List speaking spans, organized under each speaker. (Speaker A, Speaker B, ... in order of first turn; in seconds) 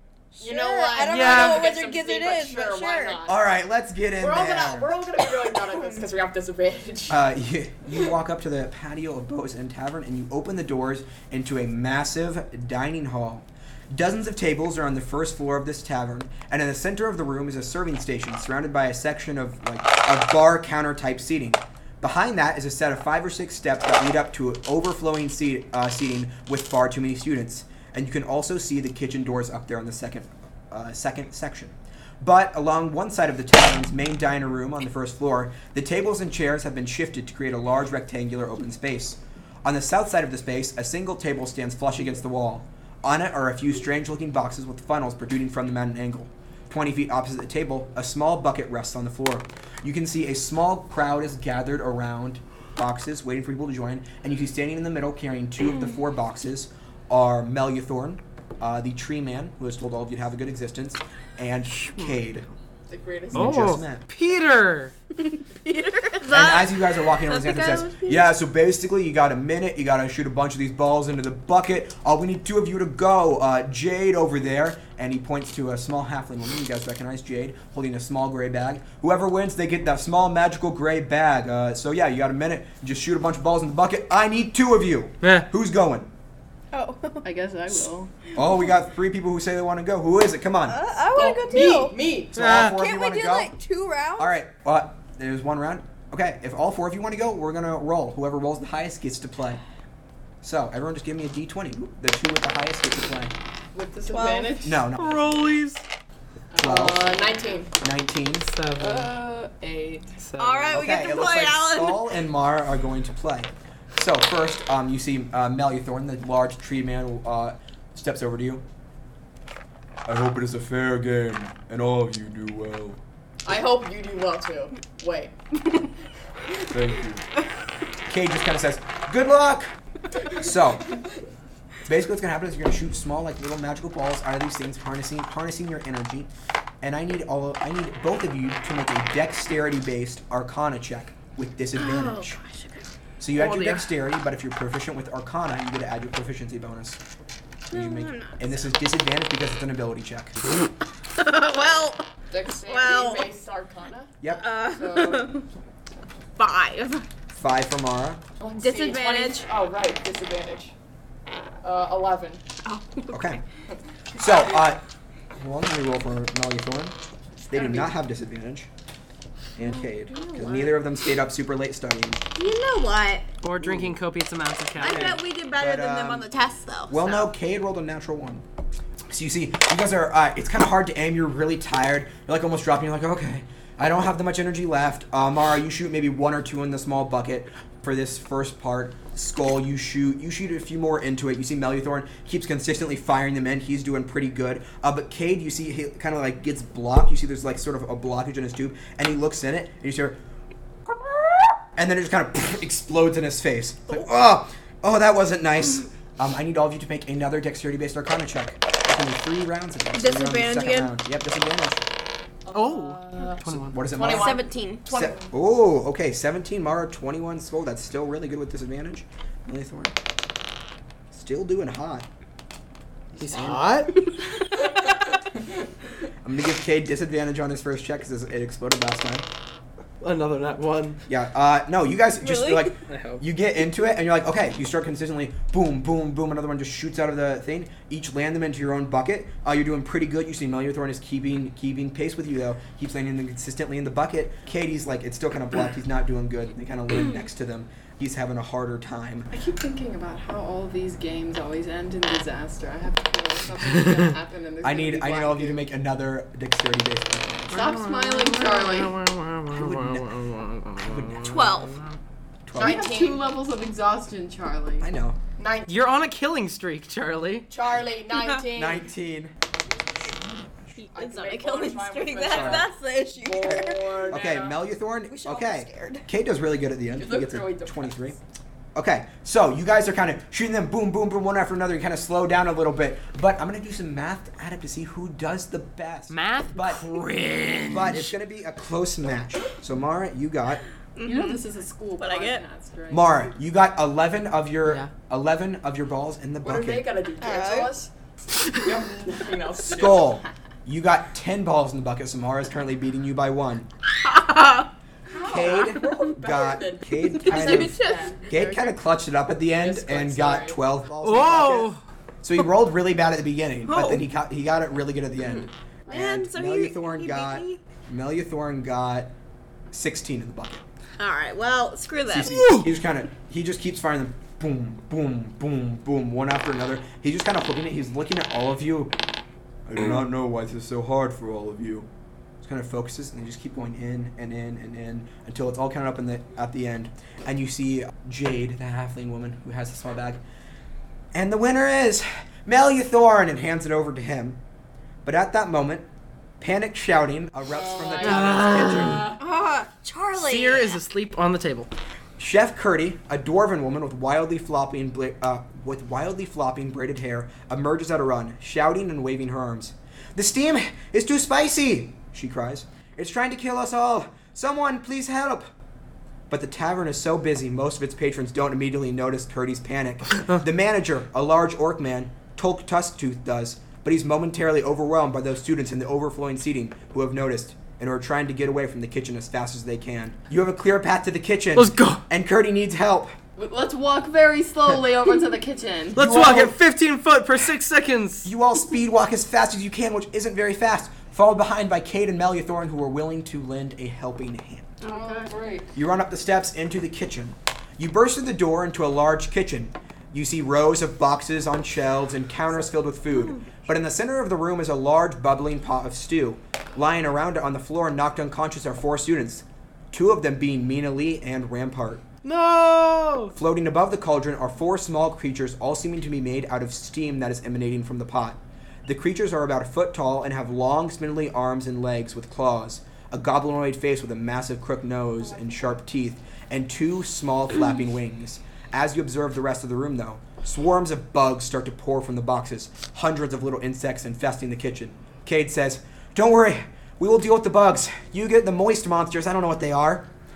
Speaker A: 0.3-3.2, 5.3-6.0, 65.2-68.3, 86.7-87.3, 90.7-92.0, 92.5-94.4, 104.1-104.6, 110.4-112.2, 141.8-142.8, 147.7-148.8, 151.1-152.0, 152.7-153.3, 154.3-155.4, 156.4-157.1, 158.6-159.5, 162.7-163.4, 169.6-170.8, 172.3-173.3, 174.8-177.3, 209.9-210.9, 214.0-214.9, 232.2-232.8, 261.2-261.8, 270.8-274.2, 275.1-276.1, 290.9-291.4, 292.0-292.4, 297.2-297.8, 304.0-304.7, 307.2-308.7, 313.7-314.1, 315.9-317.6, 321.0-322.6, 349.2-350.8, 394.8-395.3, 403.1-403.4
Speaker B: 0.4-3.4, 4.2-7.2, 62.9-63.8, 91.1-92.5, 104.1-104.4, 106.5-107.8, 123.4-125.4, 152.3-155.3, 158.4-160.7, 161.6-162.4, 167.6-167.9, 212.4-215.3, 262.6-263.4, 265.4-265.8, 267.5-268.9, 270.9-274.6, 276.9-278.1, 296.4-297.9, 298.6-300.2, 305.1-308.3, 309.5-310.6, 315.9-316.1, 347.5-349.2, 394.9-395.7
Speaker C: 1.1-1.7, 63.3-64.9, 85.2-85.5, 92.4-92.8, 105.0-105.8, 108.4-109.1, 110.2-110.9, 143.3-143.9, 173.4-175.2, 212.5-213.9, 223.2-224.0, 230.0-231.0, 232.9-233.2, 257.5-262.0, 265.7-267.5, 286.1-288.1, 294.6-294.9, 311.0-311.8, 322.2-322.7, 348.0-349.1, 350.1-351.7, 381.6-382.0, 385.9-388.3, 412.2-413.3
Speaker D: 3.3-4.9, 7.1-62.5, 63.3-64.1, 66.3-86.1, 88.3-90.8, 92.3-93.5, 94.2-99.6, 100.4-103.3, 104.6-105.3, 106.6-107.2, 107.8-108.5, 110.7-118.6, 120.1-123.0, 126.7-127.2, 128.1-129.7, 130.3-131.0, 131.8-136.3, 136.8-142.4, 143.2-147.0, 147.7-150.4, 154.2-154.5, 157.3-158.2, 163.1-163.4, 164.2-164.8, 165.4-168.7, 169.6-172.2, 173.6-174.0, 174.8-176.3, 176.9-178.4, 179.1-200.2, 201.8-211.9, 213.5-219.9, 221.1-222.1, 223.2-223.7, 226.2-229.3, 231.1-249.3, 254.6-257.7, 259.5-260.1, 260.8-261.5, 262.5-262.9, 264.8-265.2, 268.5-269.3, 270.1-270.7, 272.2-272.7, 274.1-278.2, 278.8-286.9, 287.7-290.6, 292.9-296.9, 299.7-303.7, 305.2-319.1, 319.7-320.6, 322.1-328.9, 329.7-331.9, 332.4-340.2, 341.1-344.4, 345.0-345.9, 346.4-349.1, 352.2-365.5, 366.3-383.1, 386.0-386.6, 388.2-394.7, 395.7-412.1, 413.3-440.1
Speaker E: 87.2-88.1, 103.7-104.8, 108.8-110.1, 249.3-255.7, 257.5-259.0, 262.6-264.9, 291.1-293.1, 383.4-386.0, 394.9-395.3